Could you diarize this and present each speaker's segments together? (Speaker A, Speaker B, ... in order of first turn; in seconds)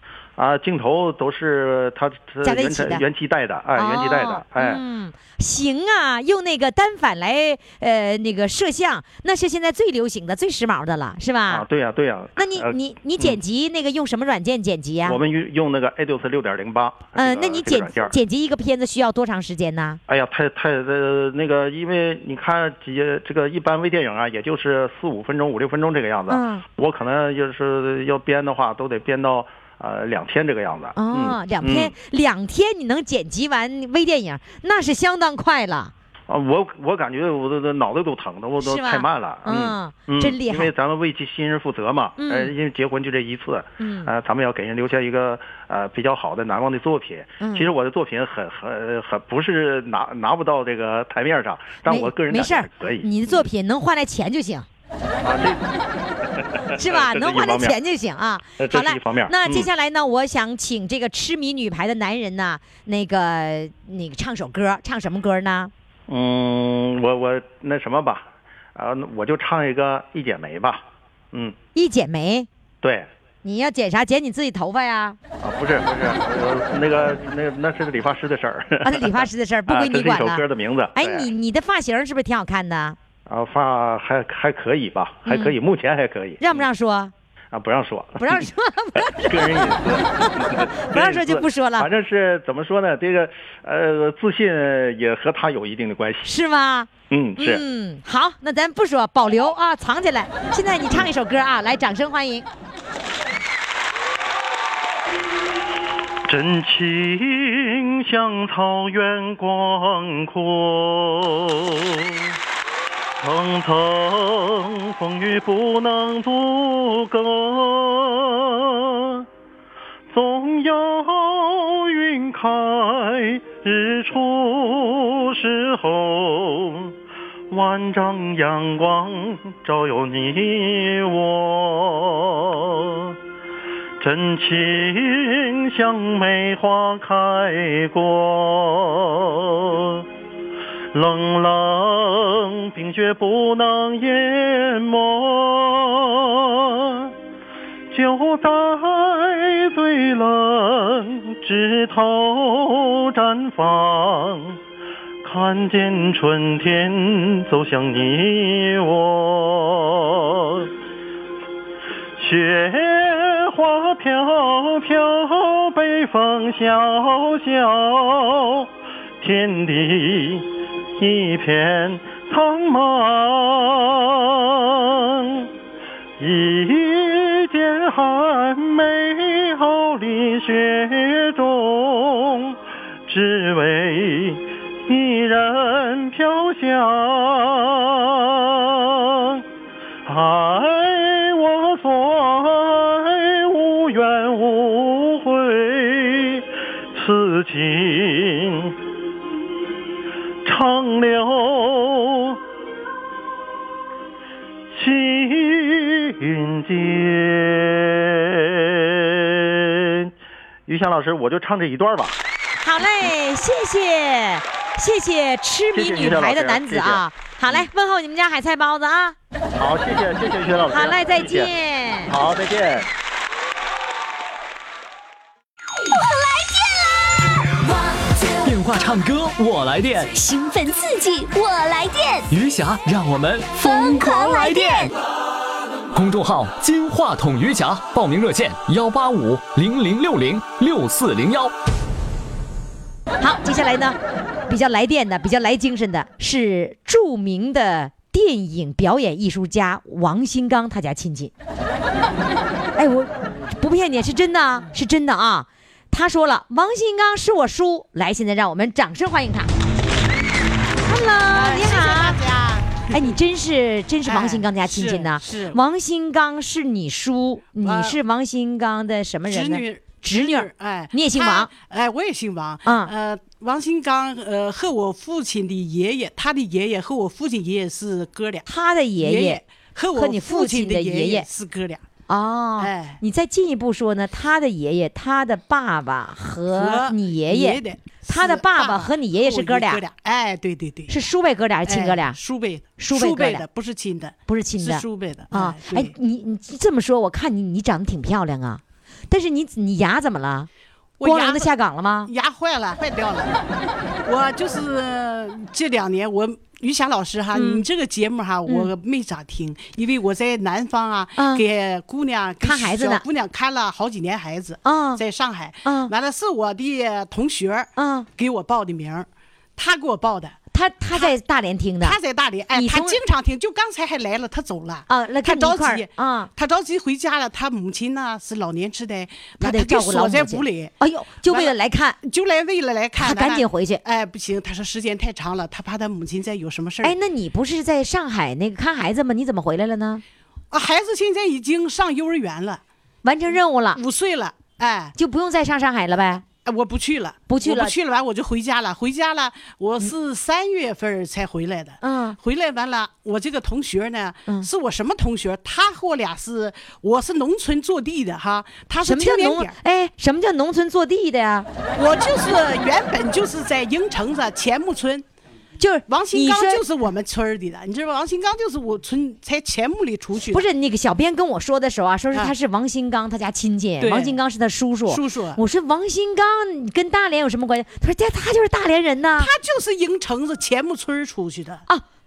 Speaker A: 0.4-4.8, 11.5-13.4, 15.0-18.1, 20.1-31.9, 36.3-53.5, 55.2-55.6, 56.4-57.8, 58.6-59.7, 66.1-71.5, 72.8-73.1, 75.4-81.3, 83.3-86.6, 87.5-96.3, 97.1-97.6, 106.2-112.2, 113.2-119.2, 120.1-126.9, 127.5-133.1, 134.0-140.0, 140.9-147.1, 147.9-154.6, 155.2-160.7, 162.2-168.7, 169.2-175.5, 176.2-189.4, 190.1-198.7, 200.4-202.4, 204.7-210.1, 210.7-212.2, 215.7-217.7, 219.5-221.5, 222.1-222.9
Speaker B: 2.4-3.0, 3.8-11.7, 12.4-15.2, 17.1-20.0, 26.3-26.6, 30.9-35.9, 38.6-40.7, 42.2-42.5, 43.8-44.1, 47.4-47.7, 51.9-54.7, 56.7-65.7, 71.7-72.5, 73.4-75.2, 78.8-80.4, 80.9-83.0, 85.2-85.5, 86.4-87.1, 88.2-91.9, 96.2-102.5, 212.6-219.2, 220.7-222.2, 243.2-251.3, 252.7-259.5, 260.8-262.2, 262.9-271.5, 272.6-272.9, 278.4-279.4, 279.9-281.3, 282.1-289.8, 290.9-292.2, 292.8-293.4, 294.3-300.5, 301.0-302.1, 307.3-307.6, 311.2-311.4, 312.4-313.0, 314.6-315.0, 315.6-315.9, 317.8-318.1, 320.5-322.0, 322.5-323.0, 324.9-326.3, 329.4-332.0, 333.0-333.8, 336.8-340.0, 343.0-343.8, 344.9-346.2, 347.3-347.7, 351.8-352.2, 358.8-361.5, 365.6-366.6, 370.3-379.3
Speaker C: 225.8-227.8, 230.1-232.3, 233.5-234.9
Speaker D: 228.4-230.1, 232.3-234.8, 235.9-241.5
Speaker E: 261.3-263.0, 264.0-265.6, 267.6-268.0, 269.3-278.5, 279.0-281.8, 282.6-283.0, 286.5-291.0, 291.6-295.9, 301.0-301.5, 302.1-303.4, 304.1-320.4, 321.8-330.7, 331.2-336.9, 340.5-342.6, 343.7-344.9, 346.4-359.5, 361.7-365.0, 365.9-370.4, 373.8-374.2, 374.9-375.4, 379.2-381.6